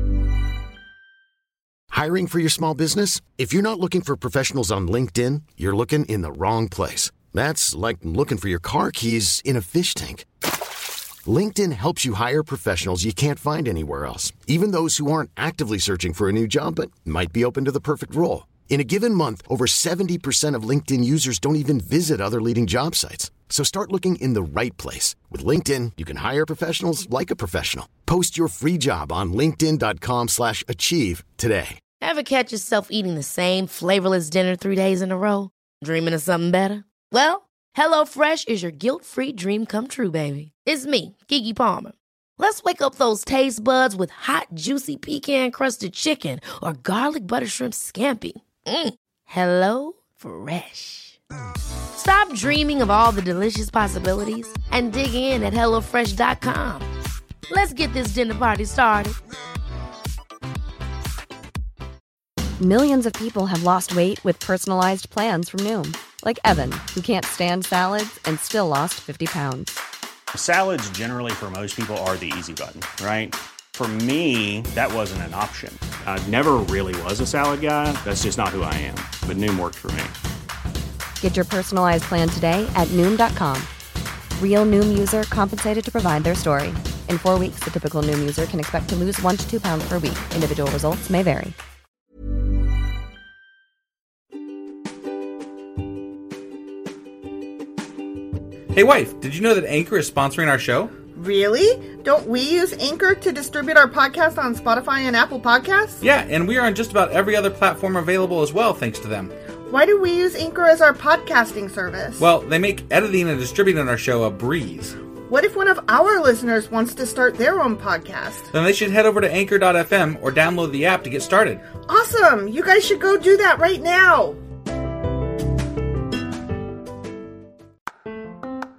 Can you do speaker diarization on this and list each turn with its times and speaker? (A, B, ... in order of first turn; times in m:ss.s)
0:01.9-0:10.2 A
0:11.2-0:31.8 A
0:32.0-0:51.2 B
0:51.9-0:56.9 B
0:57.5-0:59.2 B
1:02.6-1:09.8 C
1:10.3-1:20.1 D
1:21.2-1:23.7 C
1:24.4-1:31.6 C
1:38.7-1:40.9 E
1:41.1-1:46.0 F
1:46.0-1:49.3 E
1:49.7-1:52.2 F
1:52.2-1:55.0 E
1:55.3-1:58.5 F
1:58.5-2:01.6 E
2:01.9-2:04.4 F